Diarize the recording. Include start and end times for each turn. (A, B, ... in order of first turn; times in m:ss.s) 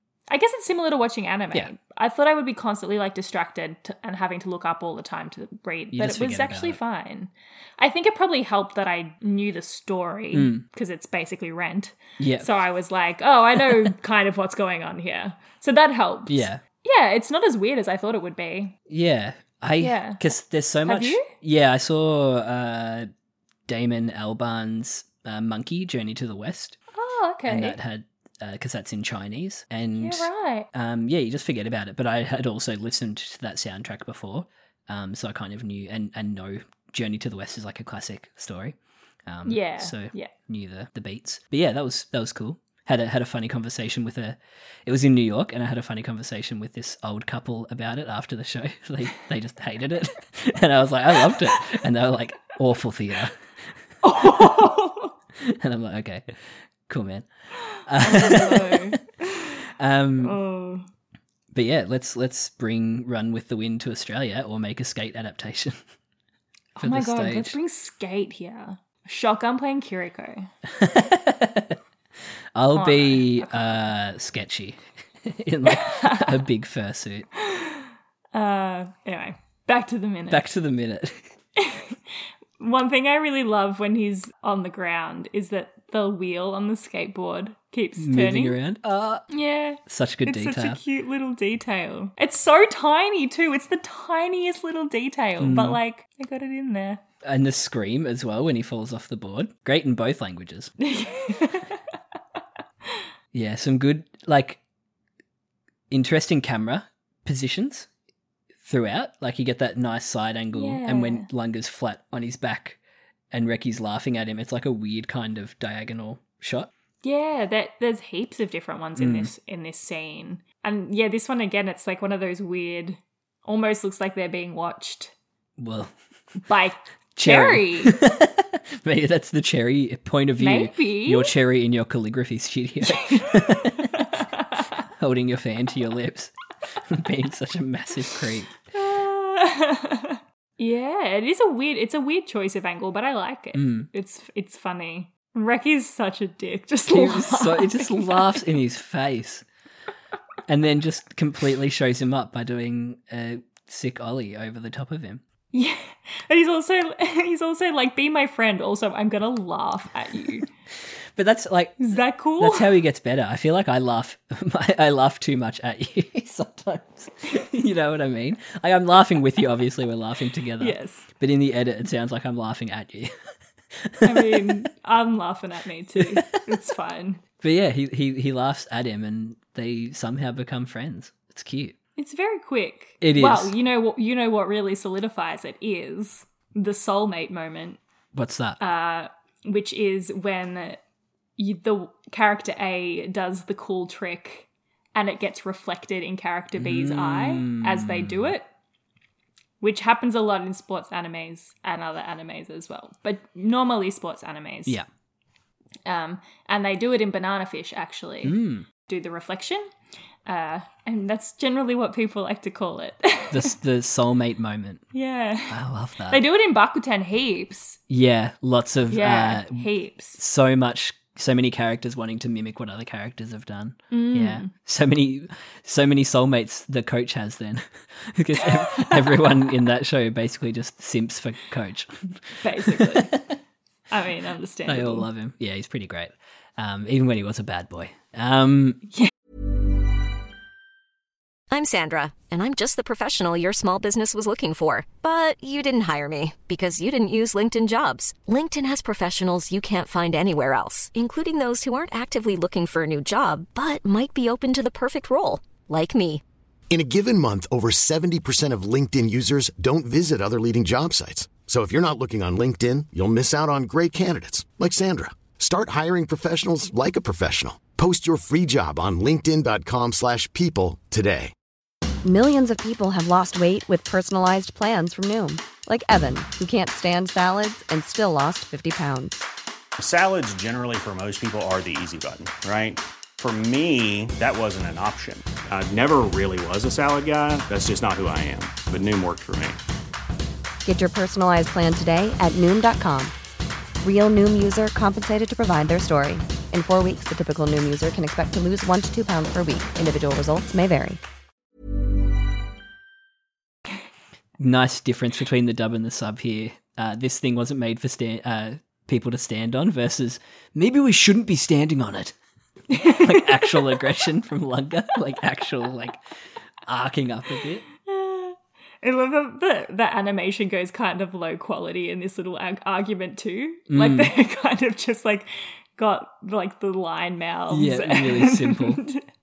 0:00.3-0:18.7 A
0:05.9-0:06.8 B
0:10.3-0:10.6 B
0:12.2-0:12.5 B
0:16.3-0:16.6 B
0:18.9-0:23.1 B
0:19.8-0:20.2 A
0:20.8-0:21.2 A
0:23.7-0:26.8 B
0:26.9-0:27.8 A
0:27.5-0:38.7 B
0:30.0-0:30.7 A
0:39.3-0:53.3 B
0:39.4-0:40.3 A
0:54.0-0:55.1 A
0:54.2-0:54.6 B
0:55.4-0:56.2 B
0:56.9-0:57.2 B
0:57.8-0:59.0 B
0:58.0-0:59.5 A
0:59.8-1:00.4 B
1:00.2-1:00.8 A
1:01.5-1:05.8 B
1:06.8-1:10.5 A
1:06.8-1:07.6 B
1:10.8-1:11.8 B
1:12.5-1:17.3 B
1:12.7-1:13.8 A
1:15.6-1:16.4 A
1:17.4-1:20.4 A
1:20.3-1:21.2 B
1:21.6-1:22.0 A
1:22.6-1:28.6 A
1:28.0-1:29.2 B
1:29.3-1:37.0 A
1:29.9-1:30.8 B
1:35.4-1:35.8 B
1:37.2-1:40.7 B
1:40.8-1:41.8 A
1:43.3-1:44.6 B
1:45.9-1:47.9 B
1:48.6-1:52.8 B
1:50.5-1:51.3 A
1:53.3-1:56.7 B
1:57.0-2:05.1 A
1:59.0-1:59.3 B
2:05.6-2:05.9 B
2:06.5-2:08.0 A
2:07.2-2:13.9 B
2:10.4-2:11.3 A
2:12.8-2:14.6 A
2:15.0-2:16.3 B
2:16.9-2:18.6 B
2:18.7-2:28.3 A
2:23.5-2:23.9 B
2:26.9-2:29.4 B
2:30.5-2:35.2 B
2:35.5-2:40.5 A
2:41.2-2:53.1 B
2:41.8-2:42.8 A
2:50.6-2:51.0 A
2:53.8-2:54.6 B
2:54.0-2:57.2 A
2:56.0-2:56.6 B
2:57.4-3:01.8 B
3:02.0-3:07.8 A
3:03.0-3:03.5 B
3:08.1-3:08.6 B
3:08.6-3:10.8 A
3:11.4-3:18.4 A
3:16.5-3:18.3 B
3:19.6-3:24.8 A
3:25.8-3:29.7 A
3:28.2-3:28.6 B
3:30.2-3:33.5 A
3:33.3-3:34.8 B
3:34.9-3:35.6 A
3:35.5-3:36.2 B
3:36.1-3:37.8 A
3:37.9-3:51.9 B
3:38.9-3:40.2 A
3:43.9-3:44.5 A
3:48.4-3:49.3 A
3:52.4-3:53.2 A
3:52.6-3:53.2 B
3:53.9-3:55.1 A
3:54.6-3:58.8 B
4:01.5-4:16.2 C
4:16.7-4:31.3 D
4:32.0-4:39.2 E
4:39.8-4:49.6 F
4:50.6-4:53.1 E
4:53.8-5:01.0 E
5:04.4-5:12.1 B
5:12.7-5:16.0 B
5:12.7-5:13.4 A
5:16.7-5:17.6 B
5:17.8-5:29.0 A
5:23.7-5:24.1 B
5:27.5-5:28.8 B